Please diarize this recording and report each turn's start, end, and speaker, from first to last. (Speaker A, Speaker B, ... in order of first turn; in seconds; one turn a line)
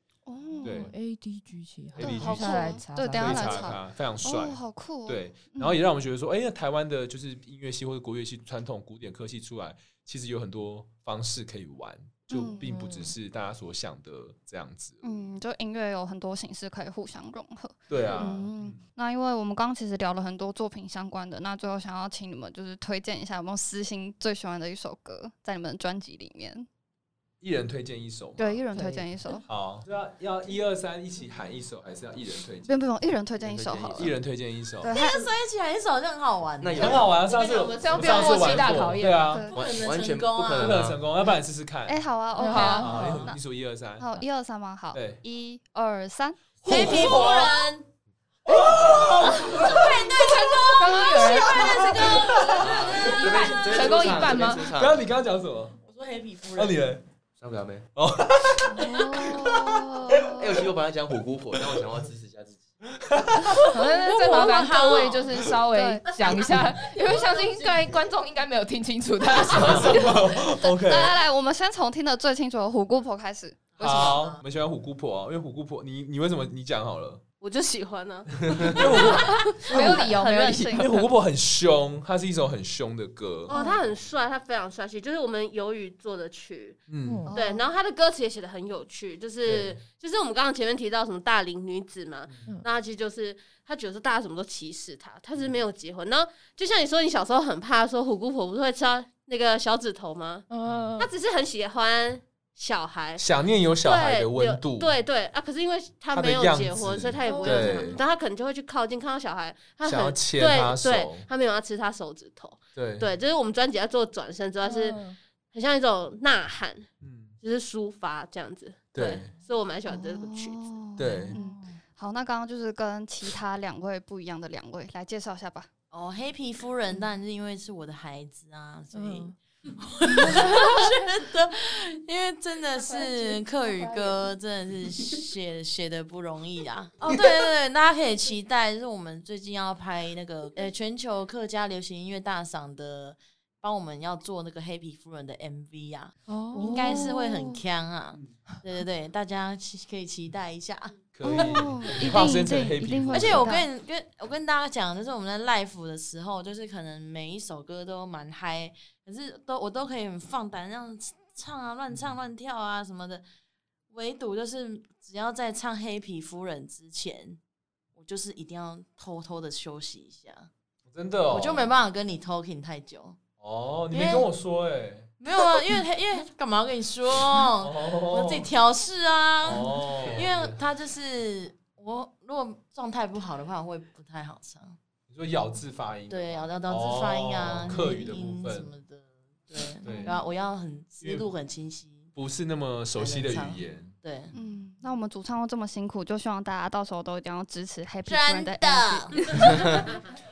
Speaker A: 0.3-0.9
Speaker B: 0.6-0.9
Speaker C: 0.6-3.8
Speaker B: 1.9-15.2
Speaker A: 2.0-5.8
Speaker A: 12.3-12.7
Speaker C: 12.6-13.1
Speaker A: 15.0-26.7
Speaker B: 17.9-18.9
Speaker B: 27.4-28.6
Speaker A: 28.4-29.4
Speaker C: 28.7-29.1
Speaker B: 29.4-32.7
Speaker A: 32.7-34.1
Speaker D: 33.4-34.2
Speaker B: 34.0-35.0
Speaker A: 34.8-35.3
Speaker E: 34.8-37.1
Speaker D: 36.6-37.1
Speaker B: 36.8-39.5
Speaker F: 37.2-39.0
Speaker C: 37.8-39.4
Speaker A: 39.2-39.5
Speaker E: 39.5-40.8
Speaker D: 39.5-41.1
Speaker B: 40.5-44.1
Speaker A: 41.9-43.4
Speaker C: 42.4-43.3
Speaker A: 44.0-46.5
Speaker B: 44.9-45.2
Speaker E: 46.6-47.9
Speaker B: 46.7-47.5
Speaker B: 48.5-49.9
Speaker C: 48.5-48.8
Speaker E: 49.2-53.5
Speaker F: 50.7-53.1
Speaker C: 50.8-54.7
Speaker B: 52.1-53.2
Speaker D: 52.6-55.1
Speaker B: 54.6-55.8
Speaker E: 55.8-56.9
Speaker B: 56.5-57.0
Speaker D: 57.4-58.2
Speaker B: 58.0-60.3
Speaker A: 58.7-60.6
Speaker D: 60.4-62.8
Speaker B: 62.9-63.8
Speaker C: 63.6-70.2
Speaker E: 64.0-65.3
Speaker A: 65.7-66.2
Speaker F: 67.0-67.7
Speaker B: 69.5-71.2
Speaker A: 70.6-74.3
Speaker E: 73.8-74.4
Speaker B: 73.8-77.2
Speaker F: 77.4-79.5
Speaker B: 78.5-80.1
Speaker C: 79.0-81.1
Speaker A: 79.2-81.0
Speaker B: 80.7-83.5
Speaker F: 83.5-100.5
Speaker C: 83.5-83.8
Speaker B: 86.9-87.3
Speaker C: 87.0-87.3
Speaker A: 87.3-87.6
Speaker B: 89.5-89.8
Speaker C: 100.5-101.1
Speaker F: 101.0-103.2
Speaker B: 103.2-104.9
Speaker F: 103.8-115.0
Speaker B: 106.1-108.0
Speaker C: 107.2-108.0
Speaker B: 109.8-111.3
Speaker B: 112.8-113.1
Speaker C: 114.6-115.2
Speaker F: 115.5-116.9
Speaker B: 117.0-117.3
Speaker F: 117.4-120.7
Speaker B: 118.9-119.3
Speaker A: 119.9-125.7
Speaker B: 121.0-121.4
Speaker C: 121.3-121.8
Speaker E: 125.9-151.6
Speaker C: 128.9-129.3
Speaker C: 130.3-130.7
Speaker C: 133.0-133.4
Speaker C: 146.3-147.2
Speaker A: 146.6-147.6
Speaker B: 151.2-153.5
Speaker A: 151.3-153.6
Speaker E: 153.1-163.2
Speaker E: 163.9-167.4
Speaker E: 168.0-170.5
Speaker B: 170.9-171.7
Speaker E: 171.3-173.2
Speaker B: 173.4-175.1
Speaker E: 173.9-174.3
Speaker E: 175.2-184.8
Speaker B: 177.6-178.5
Speaker B: 179.4-180.6
Speaker B: 185.1-188.7
Speaker E: 186.1-192.1
Speaker B: 189.8-190.2
Speaker B: 191.0-191.3
Speaker B: 192.2-193.9
Speaker E: 192.9-194.3
Speaker A: 194.3-200.0
Speaker E: 198.1-199.4